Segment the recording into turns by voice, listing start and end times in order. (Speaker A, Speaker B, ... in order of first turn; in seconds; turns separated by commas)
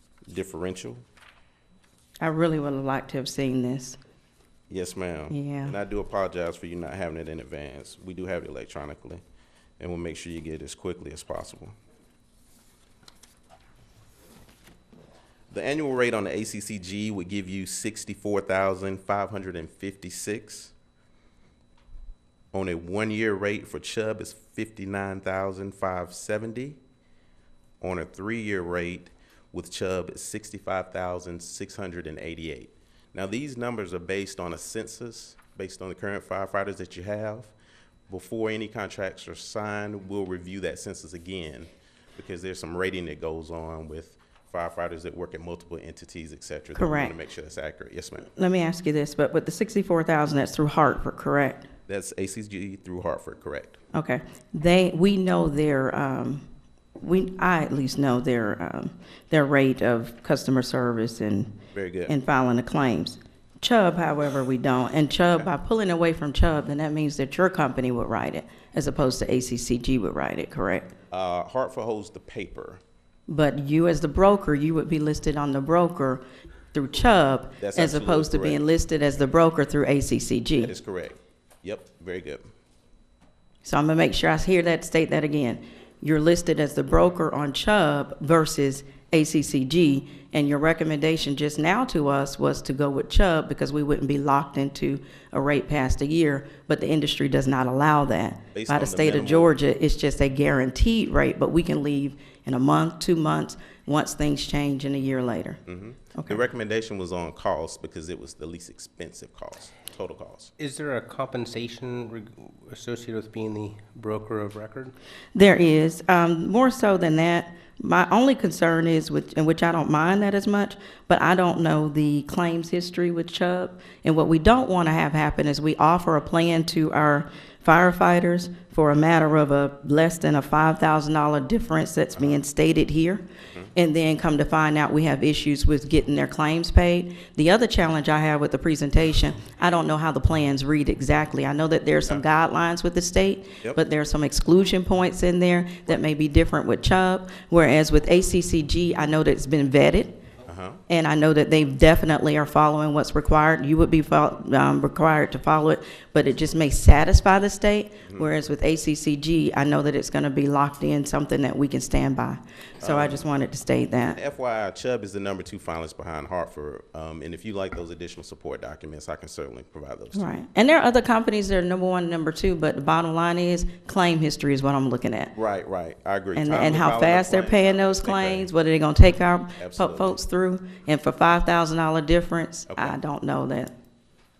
Speaker A: 0.3-1.0, Speaker B: 2.2-4.0, Speaker A: 4.7-9.2, Speaker B: 5.3-5.7, Speaker A: 9.8-11.7, Speaker A: 15.5-20.7, Speaker A: 22.5-26.8, Speaker A: 27.8-37.5, Speaker A: 38.1-48.3, Speaker B: 46.7-47.1, Speaker B: 48.4-51.7, Speaker A: 51.9-53.8, Speaker B: 53.9-56.5, Speaker B: 57.0-61.6, Speaker A: 61.7-62.1, Speaker B: 62.1-70.9, Speaker A: 71.1-72.8, Speaker B: 73.3-80.7, Speaker A: 77.6-78.6, Speaker A: 80.6-82.5, Speaker B: 83.6-105.6, Speaker A: 98.5-99.5, Speaker A: 105.7-110.5, Speaker B: 106.1-106.4, Speaker C: 110.6-114.9, Speaker B: 115.3-133.2, Speaker B: 133.7-150.2, Speaker A: 150.4-150.8, Speaker B: 150.9-164.2, Speaker A: 158.1-158.3, Speaker A: 162.8-163.3, Speaker A: 164.1-170.4, Speaker B: 170.1-175.3, Speaker A: 175.3-178.5, Speaker B: 176.3-183.7, Speaker A: 179.6-180.2, Speaker A: 182.7-183.0